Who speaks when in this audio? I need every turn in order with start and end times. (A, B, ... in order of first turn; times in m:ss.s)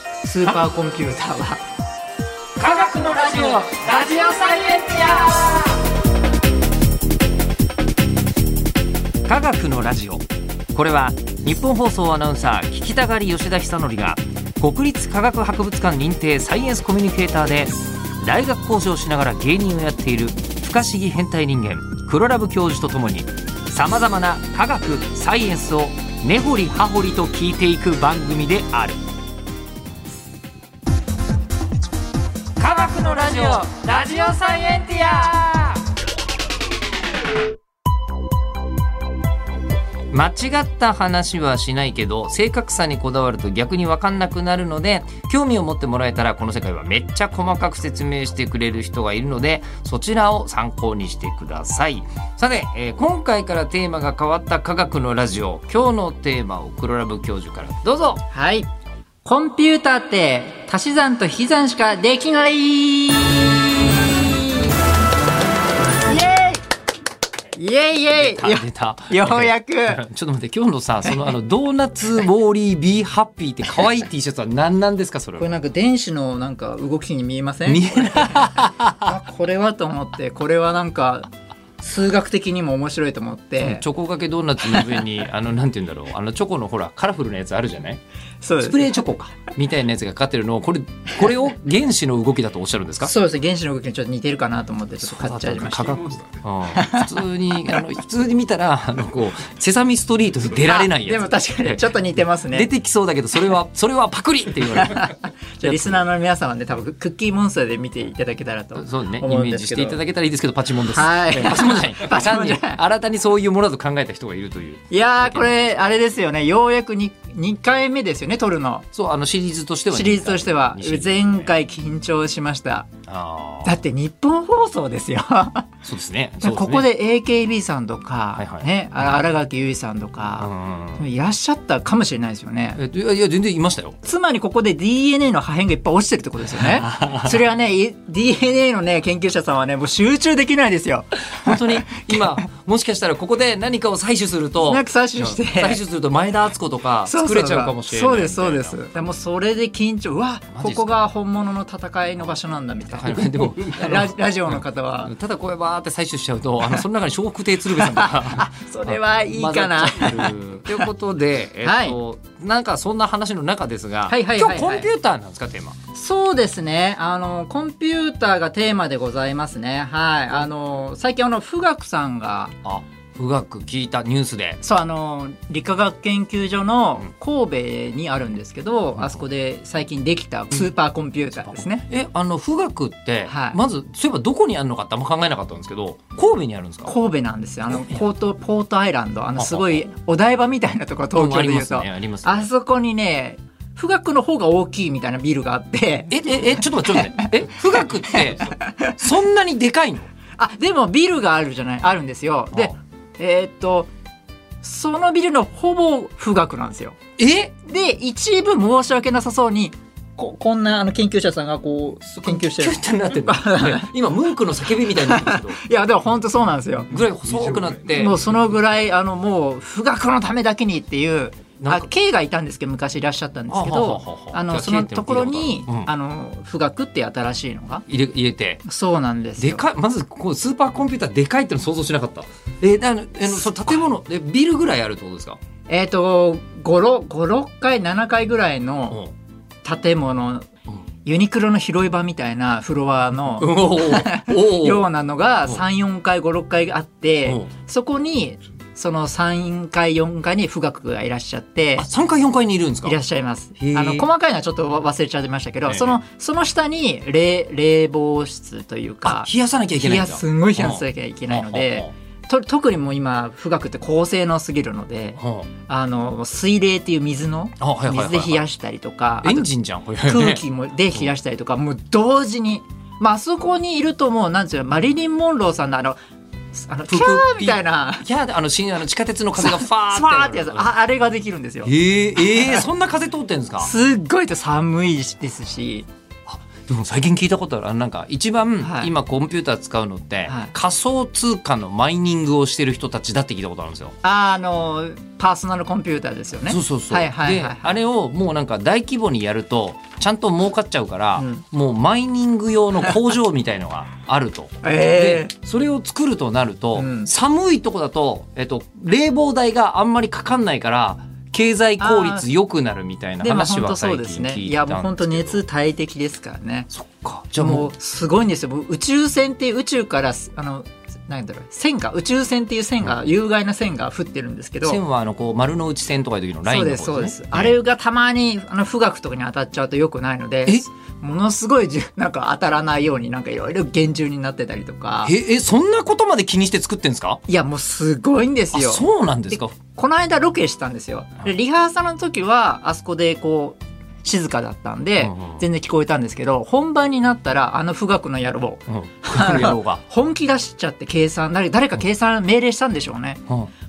0:00.2-0:01.6 A
0:02.6-0:05.8 B
0:09.2-0:29.0 B
0:32.6-0:35.8 B
0:40.1-0:58.2 B
0:58.3-0:58.7 A
0:59.2-1:04.8 A
1:06.0-1:06.6 A
1:07.6-1:10.0 A
1:08.1-1:15.6 B
1:15.4-1:21.3 A
1:17.7-1:19.1 B
1:21.8-1:23.8 A
1:23.6-1:28.0 B
1:28.4-1:29.0 A
1:28.6-1:33.1 B
1:33.0-1:36.0 A
1:35.0-1:41.8 B
1:36.7-1:37.1 A
1:40.6-1:42.7 A
1:42.5-1:46.0 B
1:44.7-1:50.0 A
1:48.8-1:55.5 B
1:50.9-1:52.8 A
1:54.9-1:58.9 A
1:58.9-2:01.5 B
1:59.9-2:02.9 A
2:03.0-2:03.8 B
2:03.6-2:05.7 A
2:05.8-2:06.9 B
2:06.4-2:12.8 A
2:08.4-2:09.2 B
2:10.4-2:11.0 B
2:12.8-2:14.0 B
2:14.0-2:22.4 A
2:16.6-2:17.3 B
2:21.4-2:29.1 B
2:24.7-2:25.8 A
2:27.1-2:35.1 A
2:30.6-2:31.0 B
2:32.9-2:45.8 B
2:37.7-2:40.8 A
2:41.6-2:42.0 A
2:44.1-2:44.9 A
2:45.9-2:52.6 A
2:52.6-2:54.6 B
2:54.6-3:01.9 A
2:59.0-2:59.2 B
3:01.5-3:06.9 B
3:03.3-3:03.6 A
3:06.8-3:19.0 A
3:09.4-3:09.8 B
3:11.1-3:12.5 B
3:16.1-3:20.1 B
3:20.4-3:23.9 A
3:24.6-3:27.0 A
3:27.2-3:27.6 B
3:27.6-3:33.9 A
3:32.1-3:35.6 B
3:34.8-3:37.0 A
3:36.9-3:38.2 B
3:37.9-3:47.8 A
3:41.6-3:41.9 B
3:43.5-3:45.9 B
3:47.9-3:48.6 B
3:48.6-3:49.6 A
3:49.4-3:55.4 B
3:55.7-3:59.0 A
3:59.6-4:00.5 A
4:01.0-4:11.9 A
4:03.4-4:04.9 B
4:11.8-4:13.0 B
4:12.8-4:29.5 A
4:13.6-4:14.1 B
4:15.7-4:16.0 B
4:19.0-4:21.9 B
4:25.2-4:25.5 B
4:27.6-4:28.4 B
4:29.2-4:30.4 B
4:30.0-4:36.0 A
4:36.6-4:38.0 A
4:36.9-4:40.7 B
4:39.4-4:42.6 A
4:41.6-4:43.7 B
4:43.6-4:45.9 A
4:46.3-4:54.0 B
4:48.6-4:48.9 A
4:50.3-4:50.5 A
4:54.0-4:57.7 A
4:56.5-5:15.4 B
5:01.2-5:01.4 A
5:04.6-5:05.3 A
5:06.8-5:07.1 A
5:11.8-5:12.2 A
5:13.2-5:16.7 A
5:16.7-5:17.7 B
5:17.4-5:24.8 A
5:24.6-5:27.6 B
5:26.5-5:35.1 A
5:35.0-5:37.2 B
5:37.3-5:53.2 A
5:38.5-5:39.6 B
5:45.0-5:45.4 B
5:48.7-5:49.8 B